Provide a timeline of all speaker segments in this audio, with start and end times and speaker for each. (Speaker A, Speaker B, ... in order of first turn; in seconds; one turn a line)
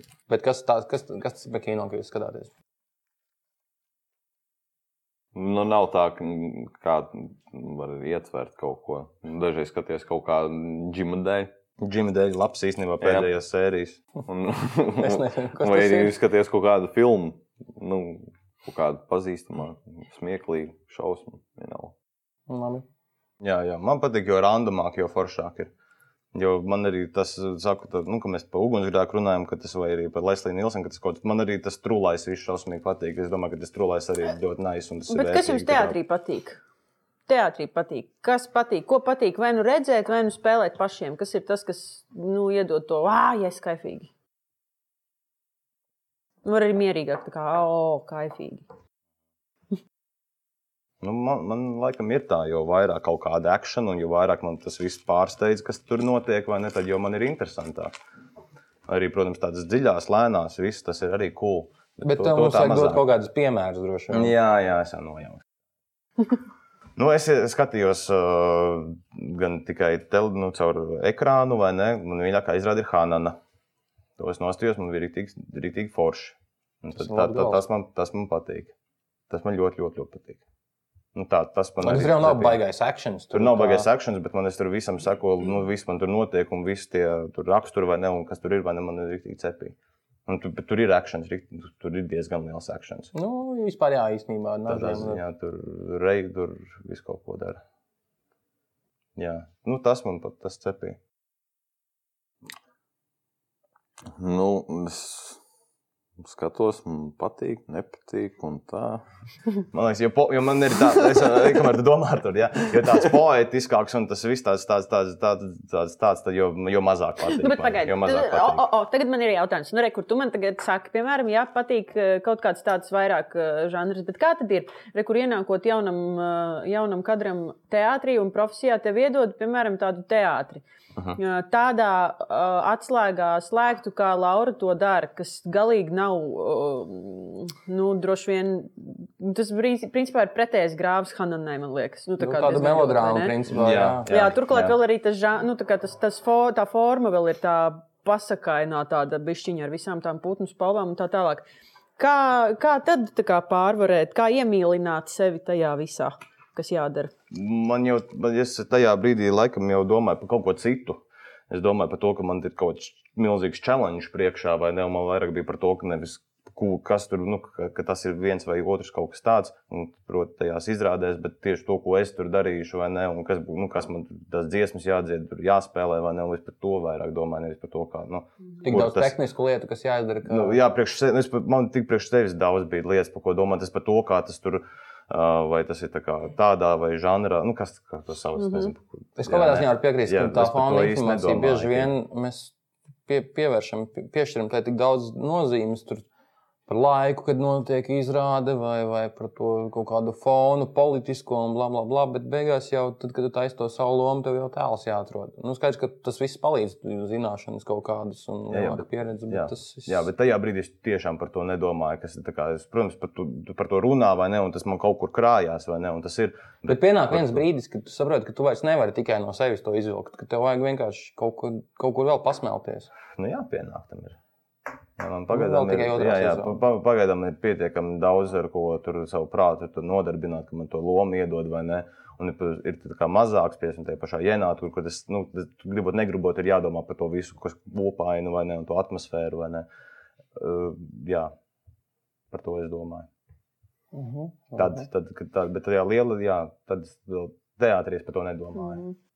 Speaker A: 0.3-2.5
Speaker B: 5.3-11.5
Speaker C: 11.8-14.0
Speaker B: 13.0-13.3
Speaker B: 14.2-21.9
Speaker A: 15.0-16.1
Speaker A: 22.5-22.8
Speaker C: 23.4-25.7
Speaker C: 26.3-36.0
Speaker D: 35.1-36.6
Speaker D: 37.3-44.1
Speaker D: 46.4-48.6
Speaker C: 51.0-57.9
Speaker C: 58.9-63.0
Speaker A: 62.0-64.3
Speaker C: 64.1-65.4
Speaker C: 67.0-73.4
Speaker C: 74.2-78.7
Speaker A: 77.0-77.6
Speaker C: 79.3-80.4
Speaker C: 81.1-82.6
Speaker A: 81.8-83.9
Speaker C: 83.3-89.7
Speaker C: 90.3-93.1
Speaker A: 93.1-95.2
Speaker C: 94.7-97.6
Speaker C: 99.2-101.0
Speaker B: 104.1-105.4
Speaker B: 106.2-109.0
Speaker C: 109.7-118.6
Speaker D: 117.3-130.6
Speaker D: 131.2-143.3
Speaker A: 142.2-144.1
Speaker C: 143.5-144.8
Speaker D: 144.1-151.4
Speaker D: 152.0-157.1
Speaker C: 157.3-179.2
Speaker A: 178.6-180.6
Speaker C: 180.3-191.9
Speaker D: 188.4-188.7
Speaker A: 189.2-192.5
Speaker A: 193.1-196.1
Speaker A: 196.7-210.1
Speaker C: 208.5-217.4
Speaker A: 216.7-222.9
Speaker C: 223.2-224.2
Speaker C: 225.0-239.7
Speaker A: 225.3-226.6
Speaker C: 240.3-241.3
Speaker C: 242.3-243.1
Speaker A: 243.9-244.8
Speaker C: 244.6-248.8
Speaker D: 248.6-248.9